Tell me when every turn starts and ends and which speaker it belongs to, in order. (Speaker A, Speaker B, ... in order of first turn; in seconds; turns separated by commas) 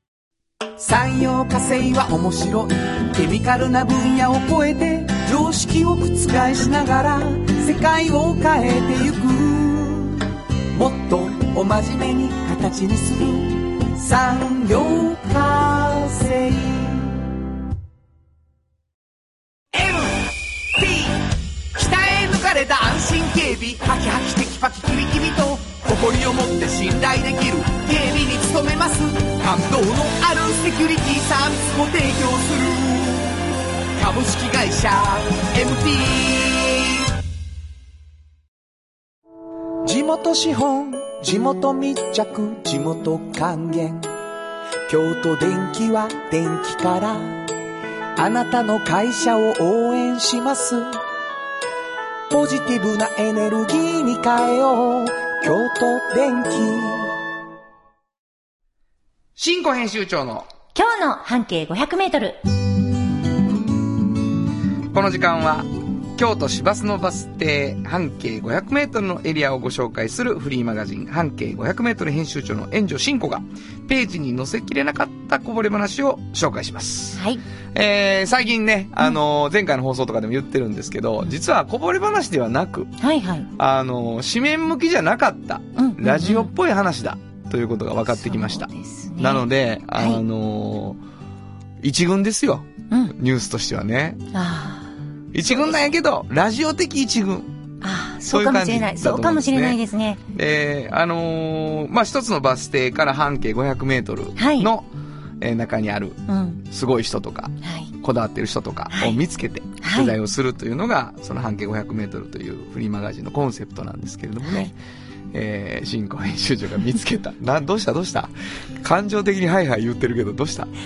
Speaker A: 0.8-17.3, Speaker A: 19.7-33.4, Speaker A: 34.0-37.1, Speaker A: 39.8-44.1, Speaker A: 44.9-47.5, Speaker A: 48.2-51.0, Speaker A: 52.3-57.1, Speaker B: 59.4-60.5, Speaker C: 60.8-62.4, Speaker B: 64.9-77.2, Speaker C: 77.2-77.4, Speaker B: 77.7-83.0, Speaker C: 83.0-83.5, Speaker B: 83.6-91.0, Speaker C: 85.8-86.5, Speaker C: 88.2-90.2, Speaker B: 91.8-94.2, Speaker C: 92.9-93.2, Speaker C: 94.3-95.8, Speaker B: 95.3-97.5, Speaker C: 97.8-100.2, Speaker B: 98.3-99.8, Speaker B: 100.3-104.8, Speaker C: 104.4-104.7, Speaker B: 105.4-114.7, Speaker C: 106.3-106.6, Speaker C: 107.6-107.9, Speaker C: 109.8-110.2, Speaker C: 114.5-114.7, Speaker B: 115.3-120.7